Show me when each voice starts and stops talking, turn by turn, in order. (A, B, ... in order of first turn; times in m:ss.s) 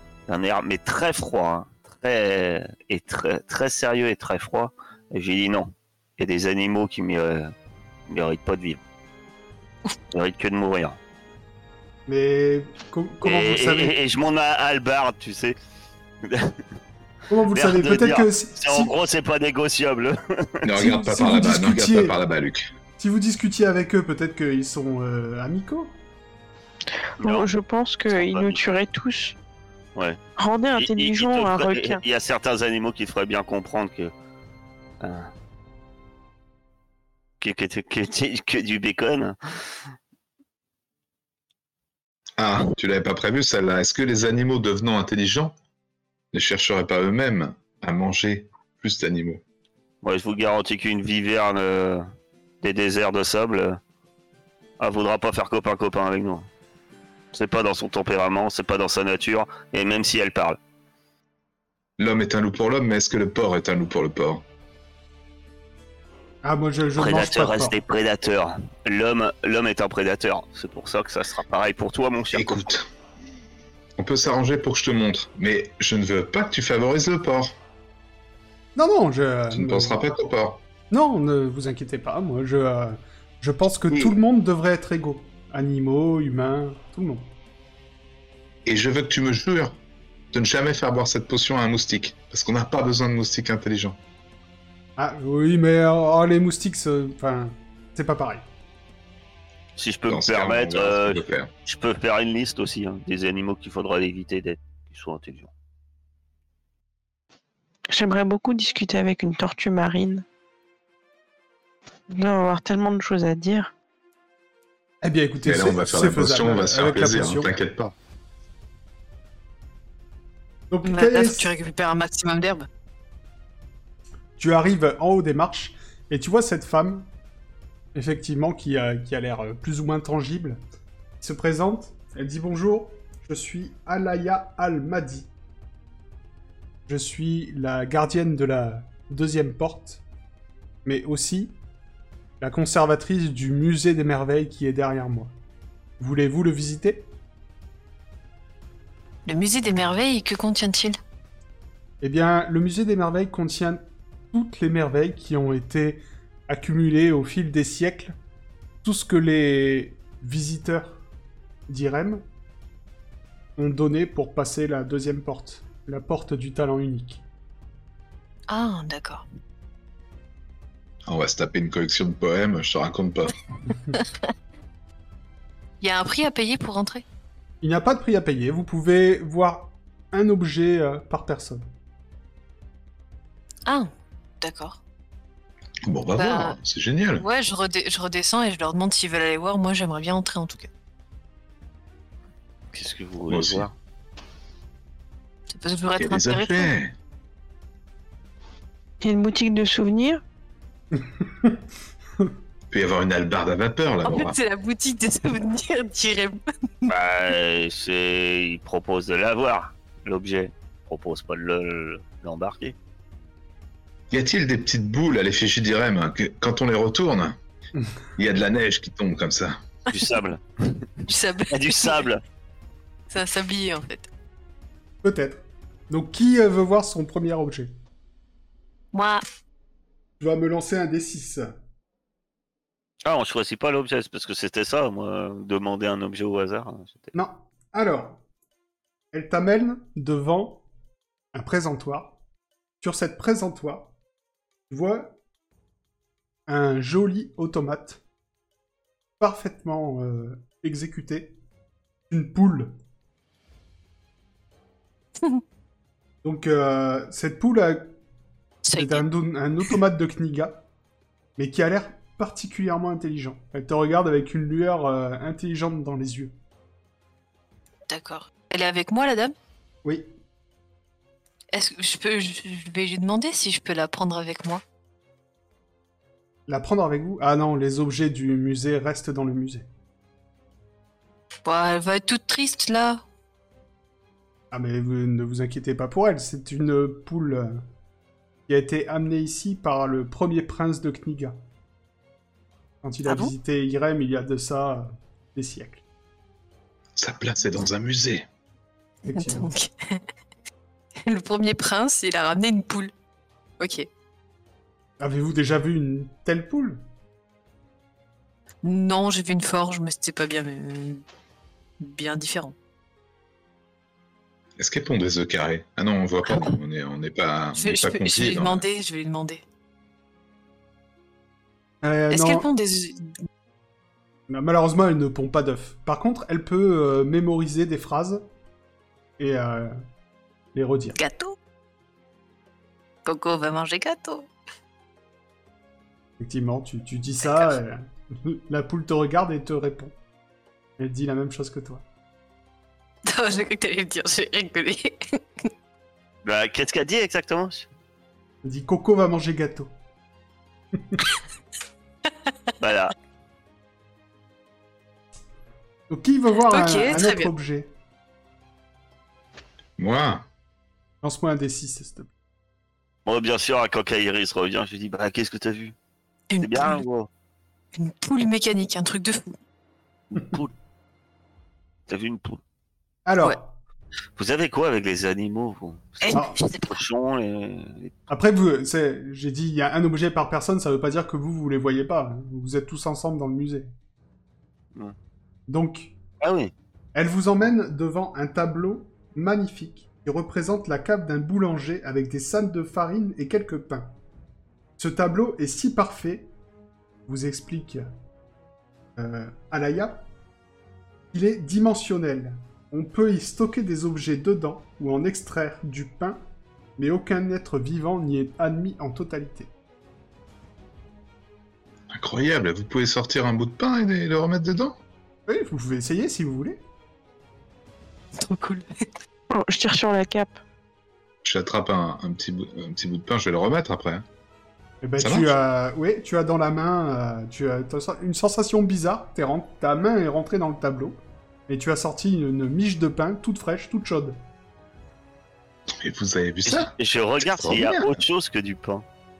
0:00.3-0:07.5 A
0:08.1-0:08.8 A
0:10.1-0:11.0 A
0:12.1-0:13.9 B
0:13.2-0:15.6 A
0:16.2-0:16.6 A
0:17.3-0:18.9 B
0:17.5-0:20.6 A
0:20.6-0:22.7 C
0:20.7-0:22.2 B
0:23.0-0:26.0 B
0:27.2-0:29.3 D
0:27.2-0:27.5 A
0:28.1-0:28.6 A
0:30.4-0:32.0 D
0:30.8-0:34.1 A
0:35.0-0:35.3 A
0:37.4-0:39.4 A
0:42.4-0:45.5 C
0:46.3-0:49.4 C
0:50.0-0:52.1 A
0:52.6-0:53.8 A
0:54.8-0:56.5 A
0:57.3-1:00.6 A
1:02.0-1:04.4 C
1:06.4-1:07.8 B
1:07.0-1:12.7 A
1:12.3-1:12.8 C
1:14.0-1:17.5 C
1:18.8-1:20.0 B
1:19.5-1:20.6 C
1:20.9-1:27.3 B
1:28.6-1:29.8 C
1:30.3-1:34.0 C
1:35.0-1:38.4 B
1:39.8-1:45.5 A
1:40.1-1:41.5 C
1:47.9-1:50.2 D
1:52.1-1:53.7 D
1:55.0-1:57.5 B
1:55.4-1:57.9 C
2:00.7-2:01.5 B
2:00.8-2:02.7 E
2:04.4-2:07.1 B
2:07.9-2:10.6 B
2:11.2-2:15.3 B
2:16.9-2:20.0 B
2:20.8-2:21.6 B
2:22.4-2:25.3 B
2:26.0-2:27.1 B
2:29.2-2:31.0 E
2:32.0-2:38.1 B
2:38.8-2:41.0 B
2:41.7-2:42.2 B
2:43.6-2:47.2 B
2:48.5-2:49.2 E
2:51.0-2:53.4 C
2:55.8-2:57.0 E
2:57.6-3:01.7 B
3:04.4-3:04.8 E
3:05.8-3:07.2 C
3:06.2-3:06.6 E
3:07.1-3:10.7 E
3:12.7-3:13.7 A
3:13.3-3:13.7 C
3:15.5-3:16.7 E
3:16.0-3:16.9 C
3:19.0-3:20.2 D
3:21.0-3:21.6 B
3:22.7-3:24.4 C
3:24.0-3:26.9 E
3:26.9-3:32.7 A
3:34.1-3:37.4 C
3:38.2-3:39.6 C
3:39.9-3:40.8 A
3:41.1-3:42.1 E
3:41.5-3:42.2 A
3:43.1-3:44.1 E
3:45.0-3:47.7 B
3:48.9-3:49.2 E
3:50.2-3:51.5 B
3:53.0-3:57.1 A
3:57.1-3:58.2 B
3:59.1-4:00.6 B
4:01.3-4:02.2 B
4:02.8-4:03.9 B
4:04.7-4:05.2 B
4:06.5-4:08.0 B
4:09.2-4:11.4 B
4:12.1-4:12.7 B
4:16.2-4:17.9 B
4:18.6-4:19.0 E
4:18.7-4:20.6 B
4:21.4-4:26.3 B
4:27.9-4:29.3 E
4:29.8-4:30.1 B
4:31.5-4:34.6 E
4:36.5-4:39.7 B
4:41.4-4:43.0 E
4:44.5-4:47.6 B
4:48.5-4:51.4 B
4:52.8-4:55.8 B
4:53.0-4:53.3 E
4:57.0-4:58.2 C
4:59.0-4:59.5 B
4:59.2-5:00.0 E
5:01.0-5:02.9 E
5:03.6-5:03.9 E
5:05.0-5:06.8 B
5:08.6-5:11.0 E
5:11.8-5:12.5 E
5:14.6-5:18.6 C
5:16.2-5:16.6 E
5:17.5-5:19.4 E
5:21.8-5:22.5 B
5:22.1-5:23.1 E
5:24.3-5:28.2 B
5:29.2-5:29.8 B
5:30.5-5:31.0 B
5:31.0-5:31.4 E
5:33.0-5:34.3 E
5:36.2-5:39.9 B
5:37.2-5:37.5 E
5:40.8-5:41.8 B
5:43.0-5:45.2 E
5:46.2-5:47.7 A
5:48.4-5:49.7 B
5:50.8-5:51.0 B
5:52.6-5:52.9 A
5:55.9-5:57.7 B
5:56.5-5:57.3 E
5:59.8-6:00.2 C
6:01.0-6:02.1 B
6:03.0-6:05.7 A
6:06.3-6:06.8 E
6:06.4-6:07.1 A
6:07.7-6:09.3 E
6:10.1-6:10.5 A
6:11.9-6:12.4 A
6:13.0-6:13.6 B
6:14.2-6:17.9 A
6:16.0-6:16.8 E
6:16.1-6:16.4 B
6:18.1-6:23.7 B
6:25.5-6:25.9 B
6:26.2-6:26.5 A
6:26.9-6:33.9 B
6:34.8-6:36.3 B
6:37.1-6:37.9 B
6:39.0-6:40.1 B
6:41.1-6:46.2 B
6:46.8-6:49.5 B
6:51.9-6:54.8 C
6:55.3-6:56.6 B
6:58.2-6:58.7 E
6:59.3-7:00.4 D
7:01.2-7:04.0 C
7:04.8-7:14.2 B
7:05.0-7:05.3 C
7:15.7-7:18.0 C
7:16.4-7:18.8 A